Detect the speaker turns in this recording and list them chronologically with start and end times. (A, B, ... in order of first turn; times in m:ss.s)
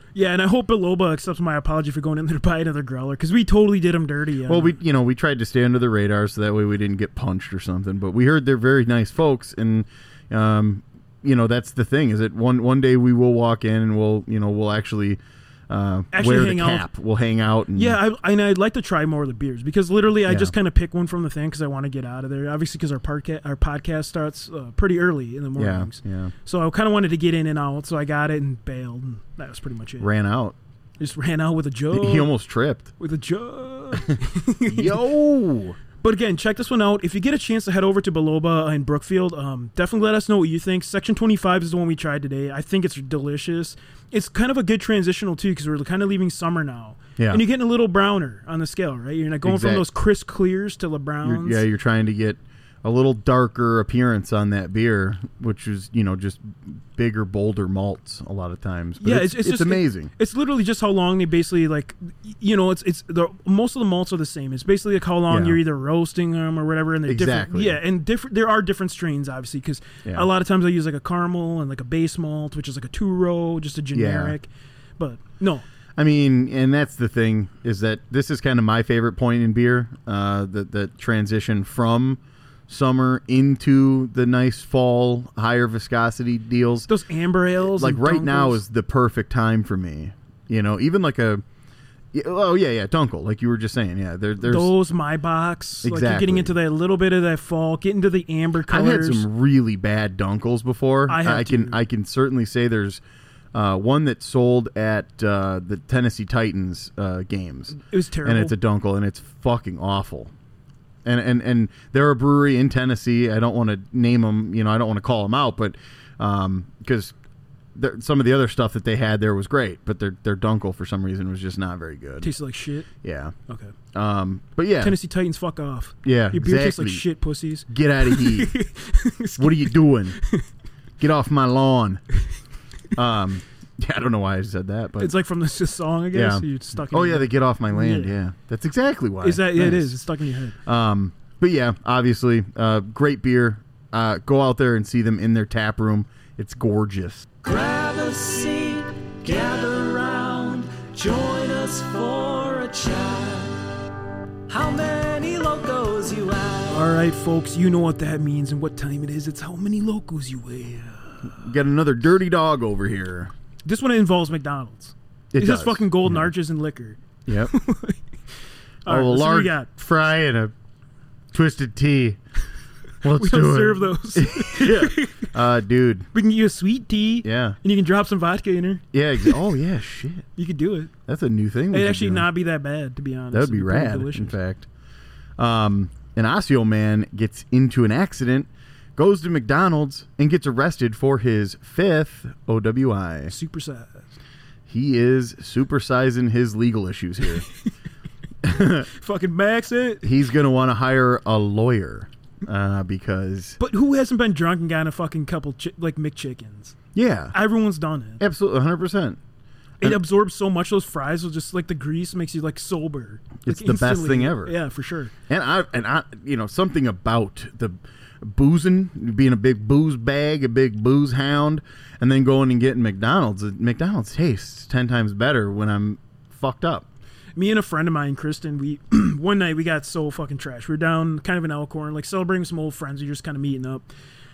0:00.2-0:04.8 A
0:04.5-0:18.0 B
0:16.1-0:16.9 A
0:17.7-0:30.1 A
0:20.3-0:20.5 B
0:25.6-0:26.3 B
0:30.0-0:30.6 B
0:31.0-0:32.3 A
0:31.9-0:32.9 B
0:33.0-0:35.0 A
0:34.7-0:35.8 B
0:36.0-0:51.6 A
0:49.4-0:49.9 B
0:51.2-1:00.1 B
0:59.0-1:15.7 A
1:05.3-1:05.6 B
1:07.1-1:07.8 B
1:13.9-1:14.4 B
1:16.0-1:26.9 B
1:26.9-1:28.6 A
1:27.6-1:31.4 B
1:32.1-1:34.7 B
1:34.4-1:39.3 A
1:35.8-1:36.6 B
1:38.7-1:43.0 B
1:41.1-1:41.8 A
1:43.5-1:50.3 B
1:47.7-1:48.6 A
1:51.0-1:57.1 B
1:57.8-2:02.3 B
2:02.2-2:02.9 A
2:03.0-2:03.3 B
2:03.5-2:03.7 A
2:03.9-2:05.0 B
2:04.8-2:10.4 A
2:06.0-2:07.0 B
2:07.7-2:08.5 B
2:09.4-2:10.2 B
2:11.0-2:12.0 B
2:13.0-2:15.1 B
2:15.0-2:18.2 A
2:16.1-2:20.0 B
2:19.2-2:20.6 A
2:20.6-2:27.3 B
2:27.4-2:33.6 C
2:34.5-2:36.9 C
2:36.7-2:41.3 A
2:41.3-2:43.3 B
2:43.7-2:48.0 A
2:45.3-2:46.3 B
2:47.3-2:47.5 B
2:48.9-2:49.7 A
2:48.9-2:50.5 B
2:51.3-2:52.2 B
2:53.0-2:56.1 B
2:53.0-2:55.3 A
2:56.1-2:59.4 A
2:57.2-2:57.6 B
2:58.9-3:00.3 B
3:00.4-3:00.9 A
3:01.1-3:02.3 B
3:01.7-3:04.3 A
3:03.3-3:04.7 B
3:05.4-3:13.3 B
3:13.3-3:14.1 A
3:14.7-3:17.4 B
3:18.4-3:18.9 B
3:18.6-3:20.1 A
3:20.0-3:23.6 B
3:23.6-3:26.8 A
3:27.0-3:27.4 B
3:27.3-3:28.2 A
3:28.2-3:29.2 B
3:29.8-3:35.1 A
3:33.4-3:34.6 B
3:35.3-3:46.9 B
3:47.4-3:53.9 A